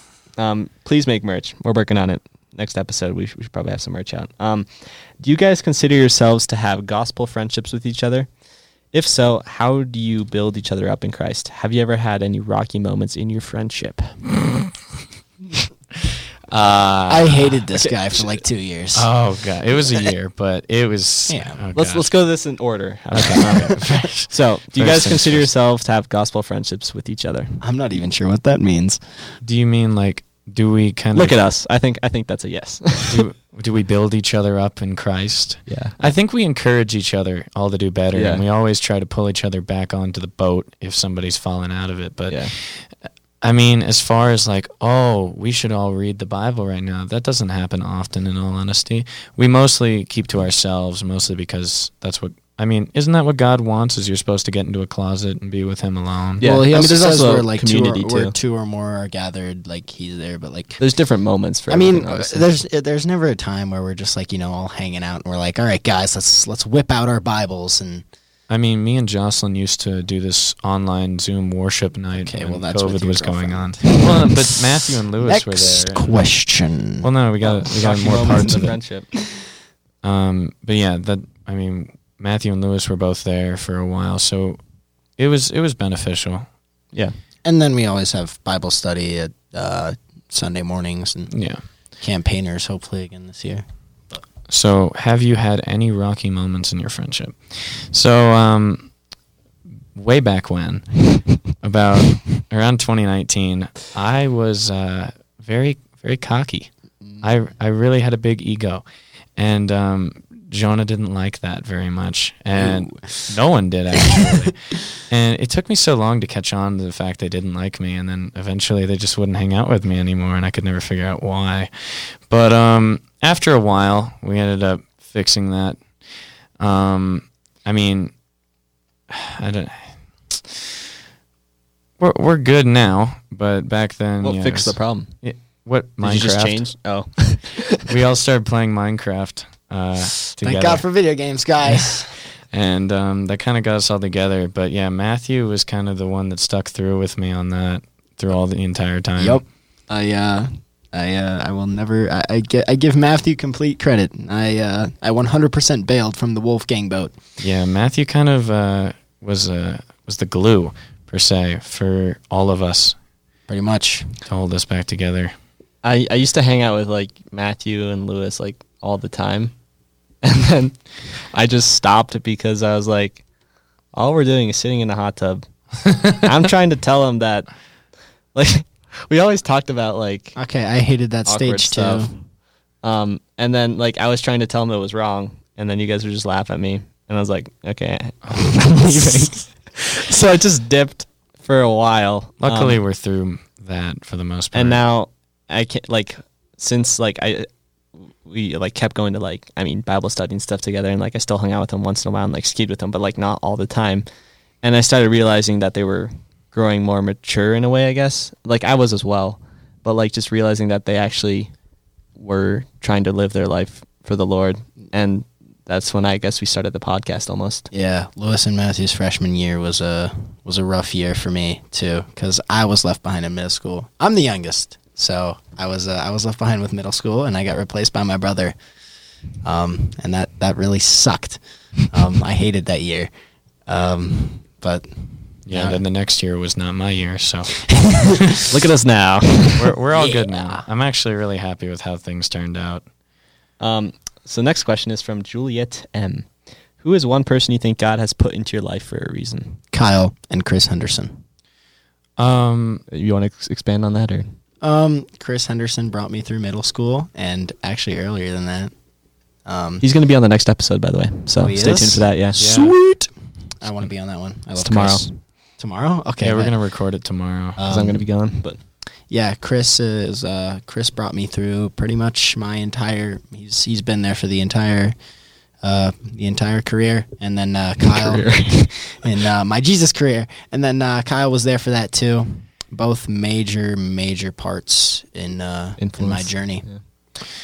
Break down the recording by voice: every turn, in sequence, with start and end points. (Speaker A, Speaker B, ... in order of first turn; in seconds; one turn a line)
Speaker A: 0.4-8.3
Speaker A: 8.9-14.3
Speaker B: 16.5-17.6
Speaker C: 17.1-19.1
Speaker A: 17.8-18.4
Speaker B: 18.9-22.1
Speaker C: 21.3-21.6
Speaker A: 21.7-27.6
Speaker B: 23.1-25.5
Speaker C: 27.6-29.3
Speaker B: 29.4-31.4
Speaker A: 31.1-33.2
Speaker B: 33.1-56.4
Speaker A: 35.7-36.1
Speaker A: 38.1-38.4
Speaker A: 42.3-42.5
Speaker A: 56.4-58.3
Speaker C: 56.4-60.8
Speaker A: 60.8-62.5
Speaker C: 61.7-68.0
Speaker B: 68.5-76.3
Speaker C: 72.1-74.6
Speaker C: 75.2-78.7
Speaker B: 77.0-78.8
Speaker A: 77.7-79.1
Speaker B: 80.0-84.6
Speaker B: 85.1-86.5
Speaker C: 87.4-94.2
Speaker B: 91.3-91.6
Speaker B: 94.5-99.0
Speaker B: 99.9-108.8
Speaker B: 109.3-126.0
Speaker C: 112.5-113.3
Speaker B: 126.6-128.1
Speaker B: 129.1-130.6
Speaker B: 132.0-136.7
Speaker A: 134.2-135.2
Speaker A: 136.0-137.8
Speaker B: 137.8-140.8
Speaker C: 140.4-142.1
Speaker B: 142.5-149.4
Speaker C: 149.2-157.2
Speaker B: 157.4-163.0
Speaker C: 163.5-164.1
Speaker B: 164.2-165.3
Speaker A: 165.8-169.6
Speaker A: 170.2-173.2
Speaker A: 173.9-177.5
Speaker A: 178.3-180.4
Speaker C: 180.3-182.1
Speaker A: 181.2-182.3
Speaker A: 182.8-192.8
Speaker B: 188.2-188.6
Speaker B: 192.4-194.8
Speaker A: 194.5-204.1
Speaker A: 204.6-211.5
Speaker A: 212.2-217.7
Speaker C: 217.7-228.6
Speaker C: 229.4-233.1
Speaker C: 233.7-235.8
Speaker B: 235.4-238.1
Speaker C: 237.7-238.2
Speaker A: 238.5-239.7
Speaker B: 239.6-242.8
Speaker C: 239.9-240.7
Speaker A: 243.6-249.6
Speaker C: 249.7-251.2
Speaker B: 252.2-252.8
Speaker A: 252.9-254.3
Speaker C: 254.6-258.7
Speaker C: 259.4-259.8
Speaker A: 259.8-262.4
Speaker C: 261.4-266.5
Speaker B: 262.4-262.8
Speaker A: 264.6-265.1
Speaker B: 266.2-267.6
Speaker C: 267.6-268.1
Speaker A: 267.7-268.6
Speaker C: 269.1-274.9
Speaker C: 275.6-286.7
Speaker A: 277.8-279.0
Speaker A: 285.8-286.8